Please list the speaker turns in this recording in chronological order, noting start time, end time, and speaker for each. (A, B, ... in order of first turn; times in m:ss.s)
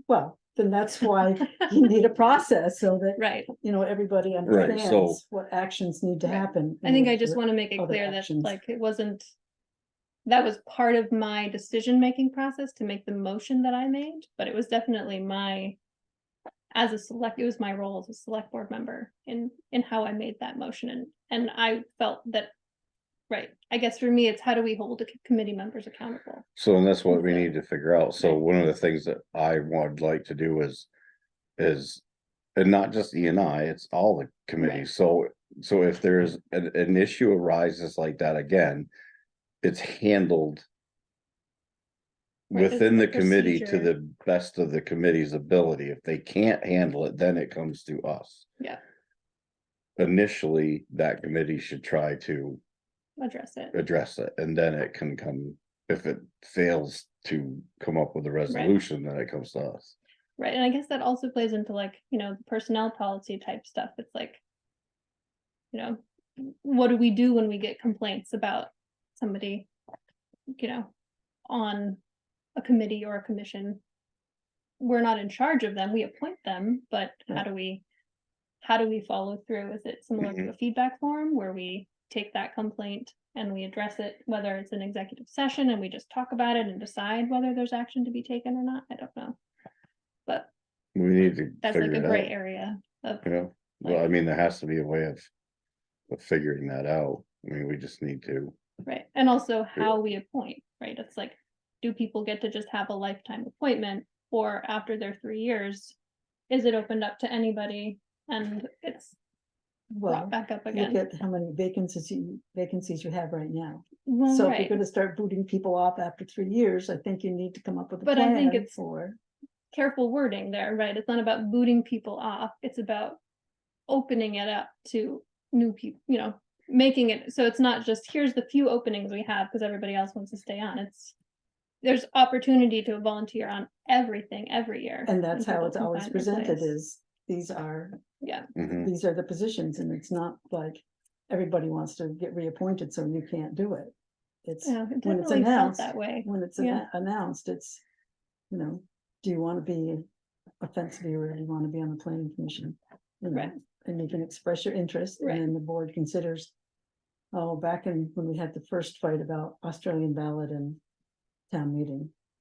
0:00.1-0:08.6 A
0:03.2-0:03.5 B
0:04.5-0:05.2 C
0:06.3-0:09.3 B
0:10.3-0:15.8 B
0:16.7-0:22.5 B
0:23.3-0:26.4 B
0:26.6-0:30.9 C
0:27.1-0:27.5 B
0:31.6-0:32.0 C
0:32.6-0:38.9 C
0:39.6-0:40.6 C
0:42.5-0:48.5 C
0:42.5-0:43.9 B
0:50.0-0:52.6 C
0:53.2-0:53.8 B
0:53.7-1:00.0 C
1:00.4-1:04.4 B
1:05.7-1:09.7 B
1:10.5-1:10.9 B
1:11.5-1:12.0 B
1:12.6-1:13.8 B
1:14.8-1:17.8 B
1:18.6-1:29.4 B
1:31.0-1:32.3 C
1:31.6-1:33.3 B
1:33.2-1:35.3 C
1:33.8-1:34.1 B
1:36.1-1:38.5 C
1:38.8-1:46.0 B
1:46.5-1:49.2 B
1:49.9-1:59.2 A
1:50.1-1:51.0 B
1:54.1-1:54.8 B
1:58.0-1:58.7 B
1:59.7-2:03.2 B
2:03.9-2:11.1 B
2:11.8-2:16.7 B
2:15.1-2:18.0 A
2:18.2-2:18.5 B
2:18.6-2:18.9 C
2:18.8-2:23.9 A
2:24.4-2:27.8 A
2:24.6-2:26.8 B
2:28.5-2:30.0 A
2:30.6-2:36.5 A
2:37.3-2:40.8 A
2:41.5-2:42.1 A